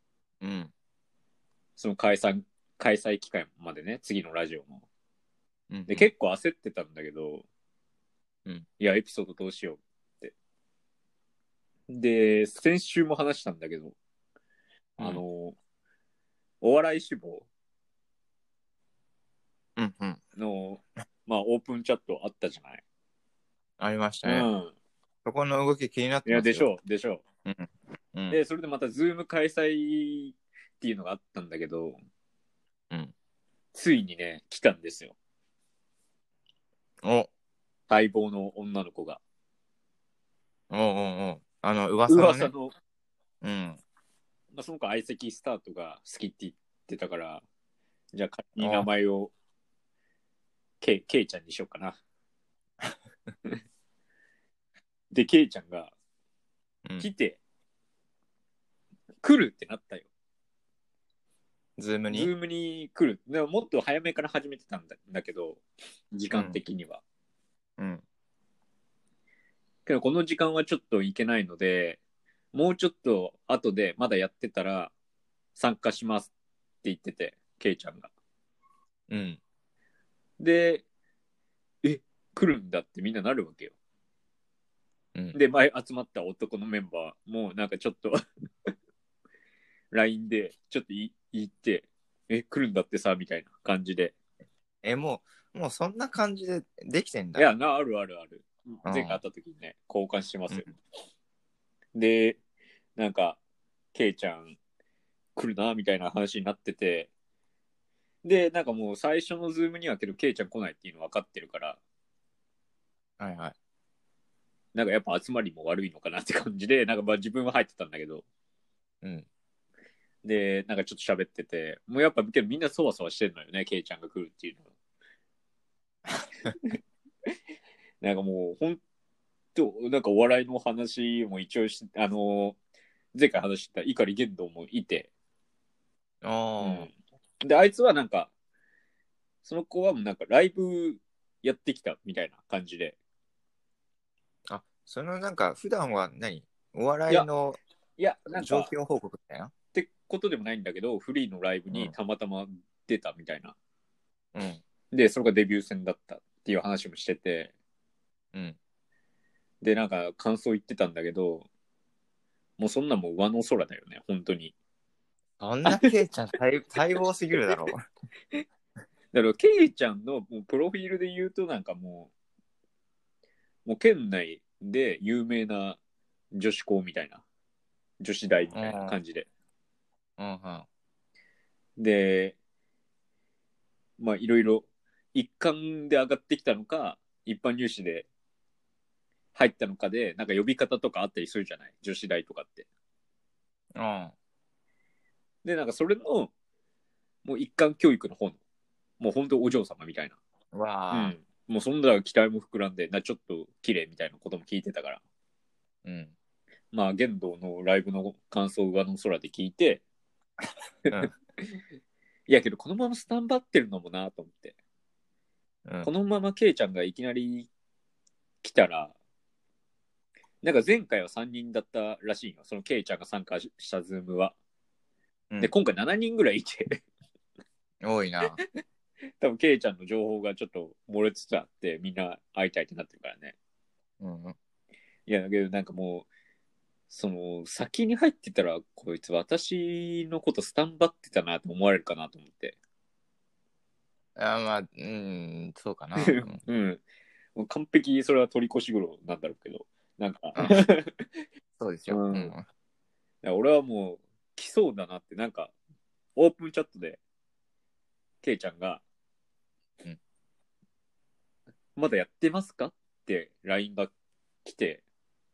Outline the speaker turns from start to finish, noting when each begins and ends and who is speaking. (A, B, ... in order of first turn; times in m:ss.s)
0:00.4-0:00.7 A
0:01.8-0:04.8 B
0:05.7-0:06.1 A
0:05.9-0:07.4 B
0:08.8-0:10.3 B
0:11.9-0:14.0 B
0:15.0-0:15.6 B
0:16.6-0:17.5 B
0:19.8-0:20.2 A
0:20.4-0:22.8 B
0:23.8-0:24.5 A
0:24.2-0:24.7 B
0:25.2-0:26.7 A
0:26.2-0:27.2 B
0:27.4-0:28.4 A
0:28.3-0:32.0 B
0:33.7-0:35.1 B
0:37.0-0:37.3 A
0:37.9-0:39.2 B
0:40.7-0:42.5 A
0:42.1-0:42.7 B
0:43.4-0:43.8 A
0:44.5-0:47.4 B
0:48.1-0:49.3 B
0:48.6-0:48.9 A
0:50.8-0:52.0 B
0:55.1-0:55.9 B
0:57.0-0:57.4 B
0:59.2-1:00.1 B
1:01.8-1:02.3 A
1:02.1-1:05.6 B
1:06.1-1:07.0 B
1:06.3-1:06.6 A
1:07.8-1:08.0 A
1:09.8-1:12.0 B
1:12.5-1:14.9 B
1:15.6-1:16.3 B
1:16.8-1:18.1 B
1:19.1-1:19.4 A
1:20.4-1:20.8 B
1:21.8-1:23.7 B
1:25.3-1:28.7 B
1:29.9-1:34.1 B
1:34.8-1:37.5 A
1:37.4-1:40.7 B
1:38.8-1:39.2 A
1:41.9-1:42.4 B
1:43.0-1:43.4 B
1:43.9-1:44.6 B
1:45.4-1:47.1 B
1:48.2-1:51.8 B
1:53.2-1:53.5 A
1:54.7-1:58.2 B
2:00.2-2:04.6 B
2:08.0-2:08.8 B
2:09.5-2:12.6 B
2:13.1-2:15.1 B
2:16.2-2:16.9 A
2:16.6-2:18.3 B
2:19.4-2:23.0 B
2:24.5-2:27.6 A
2:28.0-2:28.7 B
2:28.3-2:29.5 A
2:29.7-2:33.5 B
2:34.3-2:34.6 A
2:34.9-2:37.5 B
2:39.6-2:41.5 B
2:42.6-2:44.5 B
2:45.4-2:47.8 A
2:49.1-2:52.1 B
2:53.6-2:55.8 B
2:56.3-2:57.2 B
2:58.0-2:59.3 B
2:58.5-2:59.0 A
3:00.2-3:00.7 A
3:01.8-3:02.4 B
3:04.0-3:08.1 B
3:09.3-3:12.7 B
3:13.7-3:14.1 A
3:15.4-3:16.3 B
3:17.2-3:18.4 B
3:19.0-3:20.2 B
3:20.5-3:21.1 A
3:20.9-3:25.0 B
3:25.8-3:26.1 A
3:26.7-3:29.8 B
3:30.9-3:31.6 B
3:32.3-3:34.6 B
3:35.8-3:37.5 B
3:38.4-3:38.9 B
3:40.4-3:44.3 B
3:45.4-3:46.8 B
3:47.8-3:48.4 A
3:49.2-3:53.3 B
3:54.0-3:54.3 A
3:55.1-3:56.1 B
3:56.9-4:02.6 B
4:04.2-4:06.4 A
4:06.0-4:06.8 B
4:07.3-4:11.0 B
4:10.4-4:10.6 A
4:11.6-4:12.4 A
4:11.9-4:12.3 B
4:13.2-4:15.5 B
4:16.2-4:17.0 B
4:18.2-4:18.8 B
4:21.8-4:23.9 B
4:24.4-4:24.8 B